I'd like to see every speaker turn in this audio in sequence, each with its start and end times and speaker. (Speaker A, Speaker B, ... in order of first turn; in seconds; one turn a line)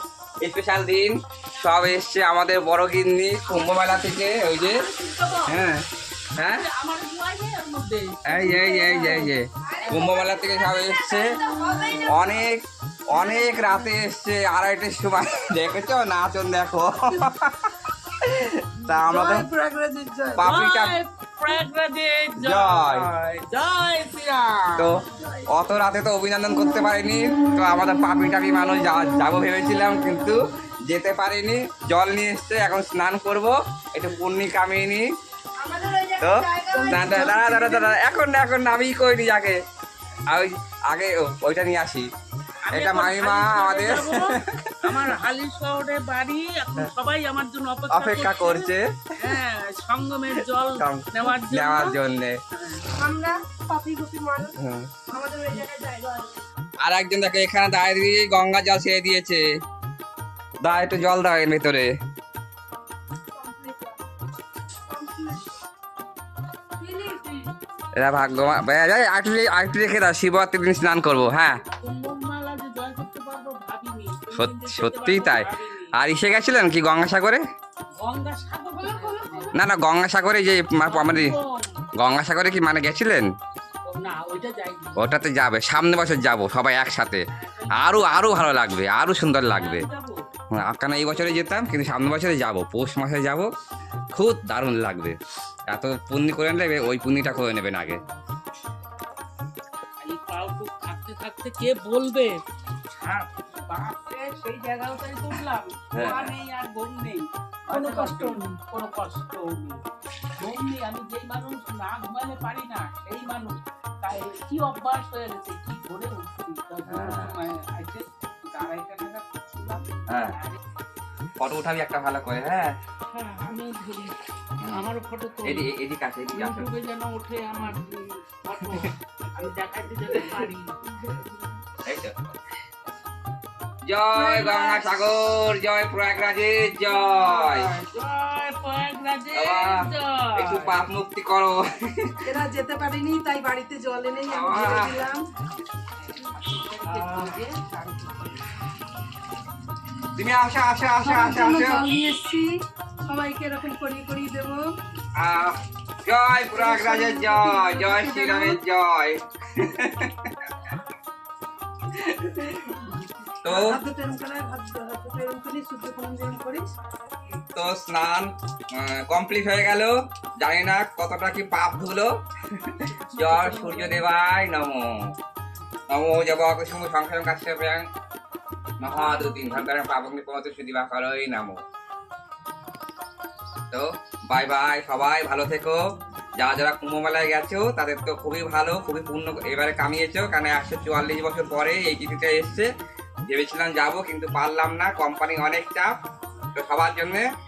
Speaker A: 0.4-5.8
Speaker B: 5.0-5.5
Speaker A: 6.4-6.6
Speaker C: 6.5-9.3
Speaker A: 8.2-11.4
Speaker B: 9.7-12.4
Speaker A: 12.0-19.4
Speaker B: 18.9-20.6
Speaker A: 20.4-21.0
Speaker C: 20.4-24.9
Speaker A: 22.4-23.1
Speaker A: 25.5-35.0
Speaker B: 35.6-37.9
Speaker A: 36.2-39.6
Speaker C: 37.0-37.3
Speaker A: 40.3-42.1
Speaker C: 42.7-52.0
Speaker A: 42.7-45.0
Speaker A: 47.9-48.8
Speaker A: 50.8-52.4
Speaker C: 52.5-52.9
Speaker B: 53.0-54.5
Speaker A: 54.6-54.9
Speaker B: 55.1-56.3
Speaker A: 56.8-59.4
Speaker A: 60.6-61.9
Speaker B: 63.3-64.0
Speaker B: 64.9-65.5
Speaker B: 66.8-67.5
Speaker A: 68.0-71.6
Speaker C: 71.6-75.9
Speaker A: 74.3-77.4
Speaker C: 78.0-79.5
Speaker B: 78.8-79.6
Speaker A: 79.5-81.3
Speaker C: 80.8-81.8
Speaker A: 82.0-83.3
Speaker C: 83.8-85.0
Speaker A: 85.0-89.8
Speaker C: 87.3-88.1
Speaker C: 89.4-90.2
Speaker A: 90.5-93.5
Speaker A: 94.1-95.2
Speaker A: 95.7-98.0
Speaker C: 97.7-98.1
Speaker C: 100.0-102.4
Speaker C: 102.9-109.8
Speaker A: 105.9-106.3
Speaker B: 107.7-108.4
Speaker C: 110.4-120.6
Speaker A: 116.8-117.3
Speaker A: 120.1-120.3
Speaker A: 121.4-122.8
Speaker C: 123.1-125.7
Speaker A: 125.4-126.7
Speaker C: 126.3-130.8
Speaker A: 131.8-132.1
Speaker A: 133.8-137.7
Speaker B: 134.1-135.0
Speaker C: 136.9-140.7
Speaker A: 139.3-142.1
Speaker B: 142.2-145.2
Speaker A: 144.3-145.1
Speaker C: 146.1-148.3
Speaker B: 146.8-147.4
Speaker A: 150.2-151.8
Speaker B: 151.0-152.5
Speaker B: 153.1-154.6
Speaker A: 155.2-160.7
Speaker B: 156.5-158.6
Speaker A: 161.9-162.7
Speaker A: 163.4-163.8
Speaker B: 163.4-166.7
Speaker A: 167.5-174.9
Speaker C: 173.1-174.0
Speaker A: 175.9-177.8
Speaker A: 178.8-181.6
Speaker C: 178.8-179.6
Speaker A: 183.7-185.8
Speaker A: 186.4-192.7
Speaker A: 193.3-195.9
Speaker A: 196.6-197.3